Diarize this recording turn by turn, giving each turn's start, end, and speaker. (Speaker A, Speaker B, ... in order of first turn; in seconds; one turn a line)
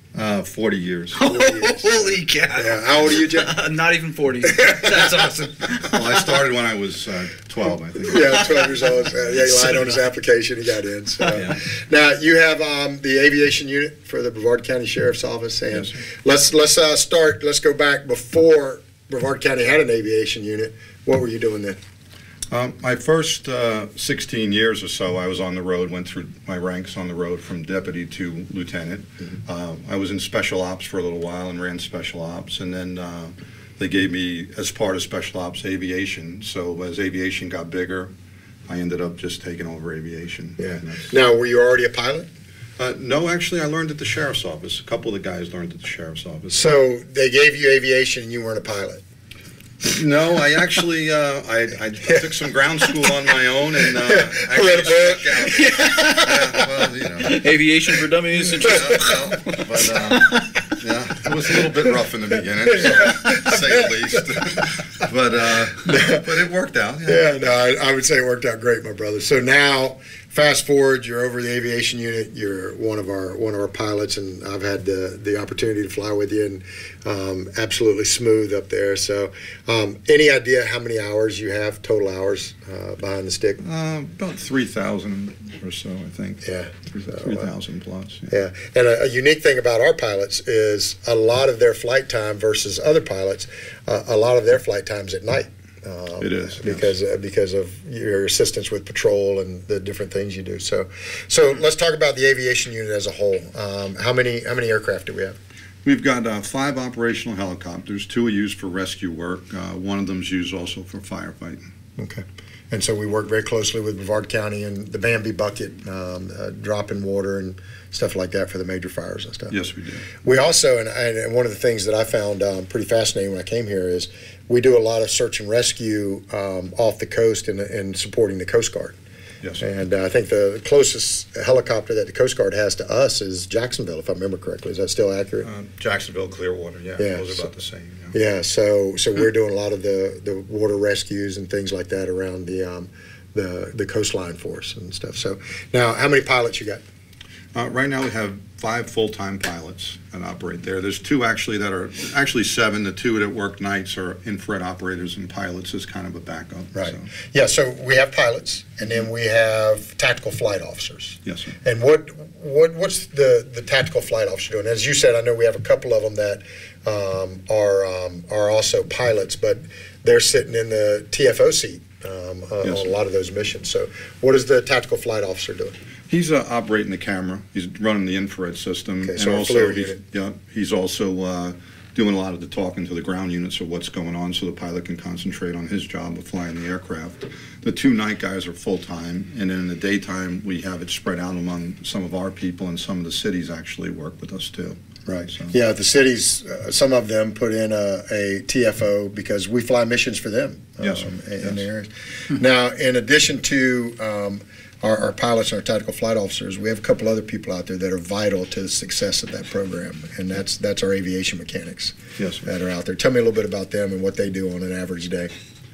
Speaker A: 0.1-1.2
Speaker B: 1.1-6.3
Speaker C: 1.2-3.5
Speaker C: 4.6-5.1
Speaker A: 5.8-8.6
Speaker C: 8.0-21.8
Speaker B: 9.5-9.9
Speaker A: 11.3-11.6
Speaker A: 22.5-38.1
Speaker A: 38.7-41.1
Speaker C: 40.6-42.3
Speaker A: 42.8-46.6
Speaker C: 46.5-49.0
Speaker A: 49.8-57.4
Speaker C: 52.8-53.1
Speaker C: 53.8-55.8
Speaker B: 55.5-60.7
Speaker A: 58.4-67.3
Speaker C: 62.7-63.9
Speaker C: 65.8-66.3
Speaker C: 67.0-83.6
Speaker A: 83.6-88.3
Speaker C: 86.4-87.5
Speaker C: 88.3-105.4
Speaker A: 96.2-96.9
Speaker A: 105.8-111.7
Speaker C: 112.0-119.5
Speaker A: 119.5-120.0
Speaker C: 120.2-128.9
Speaker C: 129.6-135.5
Speaker A: 135.4-138.1
Speaker C: 137.0-137.4
Speaker C: 138.1-146.8
Speaker A: 147.5-157.1
Speaker C: 156.7-175.8
Speaker A: 161.2-161.5
Speaker A: 176.1-195.5
Speaker C: 179.0-180.0
Speaker C: 195.1-215.3
Speaker A: 200.8-201.6
Speaker A: 212.2-212.4